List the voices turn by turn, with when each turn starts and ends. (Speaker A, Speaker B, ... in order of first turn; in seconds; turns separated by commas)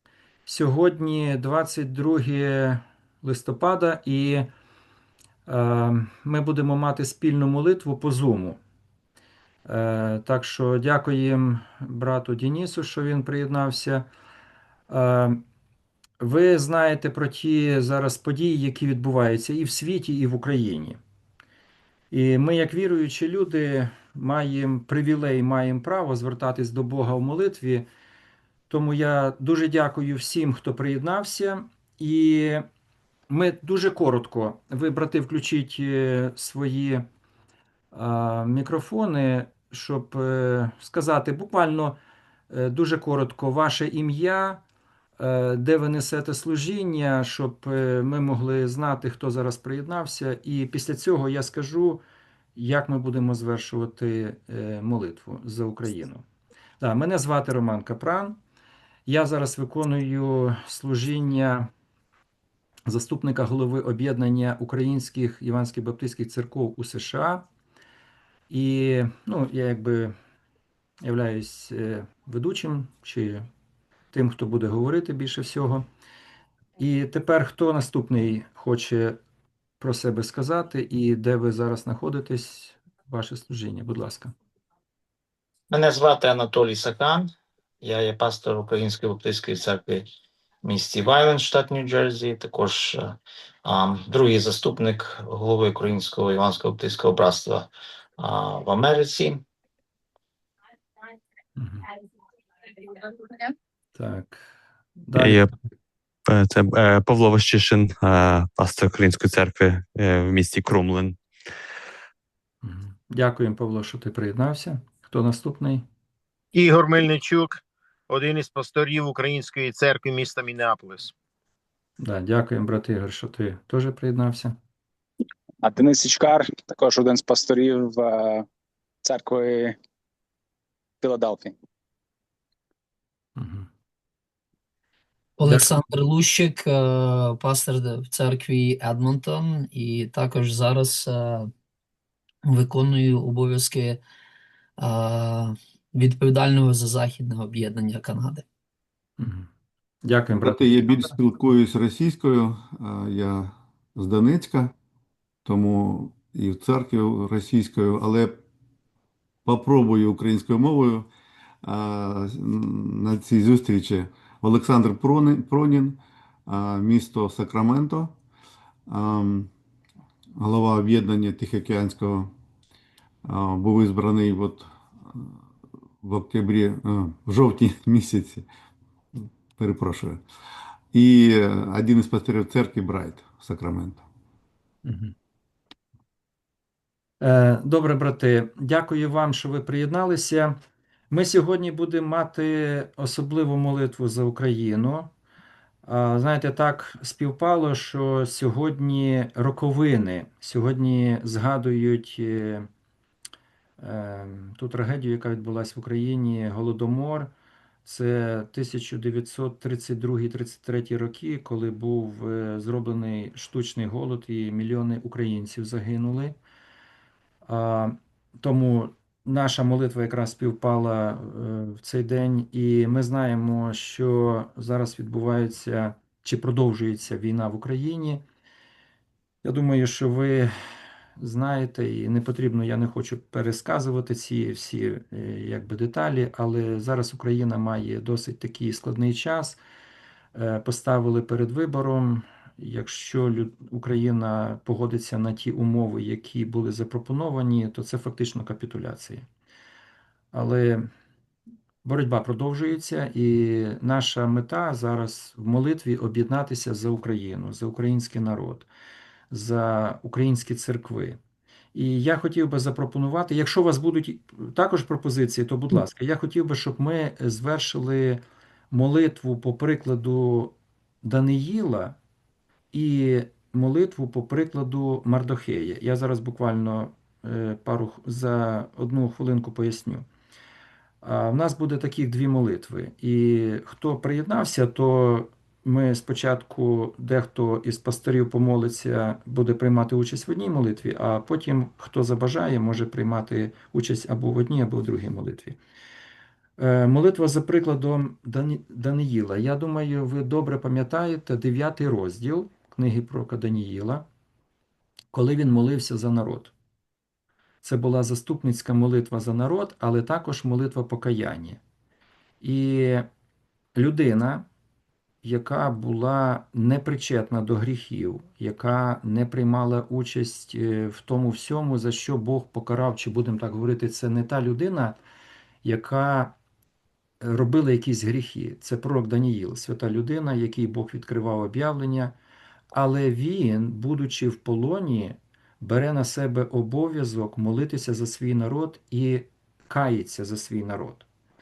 Speaker A: 0.5-4.5, Speaker A: 5.5-8.6, Speaker A: 9.7-14.1, Speaker A: 14.9-15.4, Speaker A: 16.2-21.0, Speaker A: 22.1-27.9, Speaker A: 28.7-32.6, Speaker A: 33.3-37.1, Speaker A: 37.9-42.0, Speaker A: 42.5-44.6, Speaker A: 45.2-52.0, Speaker A: 52.6-56.2, Speaker A: 56.8-58.4, Speaker A: 59.1-61.7, Speaker A: 62.9-67.5, Speaker A: 68.5-70.2, Speaker A: 71.0-73.5, Speaker A: 74.1-75.9, Speaker A: 76.8-79.2, Speaker A: 79.8-84.3, Speaker B: 85.7-87.3, Speaker B: 87.8-90.1, Speaker B: 90.6-97.7, Speaker B: 98.2-99.4, Speaker A: 101.6-101.9, Speaker A: 104.0-104.4, Speaker A: 105.0-105.5, Speaker C: 105.2-105.5, Speaker C: 106.3-111.2, Speaker A: 112.6-115.8, Speaker D: 116.5-121.1, Speaker A: 122.0-124.6, Speaker E: 125.6-128.5, Speaker E: 129.0-129.8, Speaker E: 131.0-131.6, Speaker A: 133.4-133.7, Speaker F: 135.4-141.5, Speaker F: 142.4-144.0, Speaker F: 144.8-148.4, Speaker A: 149.2-149.5, Speaker A: 150.0-150.6, Speaker G: 150.4-154.7, Speaker G: 155.4-158.4, Speaker G: 159.4-161.1, Speaker G: 161.6-168.2, Speaker G: 168.9-169.5, Speaker G: 170.4-172.3, Speaker G: 173.2-175.4, Speaker G: 176.0-178.5, Speaker G: 179.1-180.2, Speaker G: 180.9-184.0, Speaker A: 184.8-185.2, Speaker A: 187.2-190.6, Speaker A: 191.1-195.1, Speaker A: 195.8-202.7, Speaker A: 203.8-207.3, Speaker A: 207.8-216.4, Speaker A: 217.5-228.2, Speaker A: 229.4-230.5, Speaker A: 231.2-239.6, Speaker A: 240.3-249.2, Speaker A: 250.3-250.9, Speaker A: 251.8-258.7, Speaker A: 259.3-261.2, Speaker A: 261.7-272.0, Speaker A: 272.7-280.1, Speaker A: 281.0-295.6, Speaker A: 296.6-304.1, Speaker A: 305.1-306.5, Speaker A: 307.6-311.6, Speaker A: 312.4-313.1, Speaker A: 313.8-314.5, Speaker A: 315.2-325.0, Speaker A: 325.6-326.4, Speaker A: 327.2-332.1, Speaker A: 332.7-341.1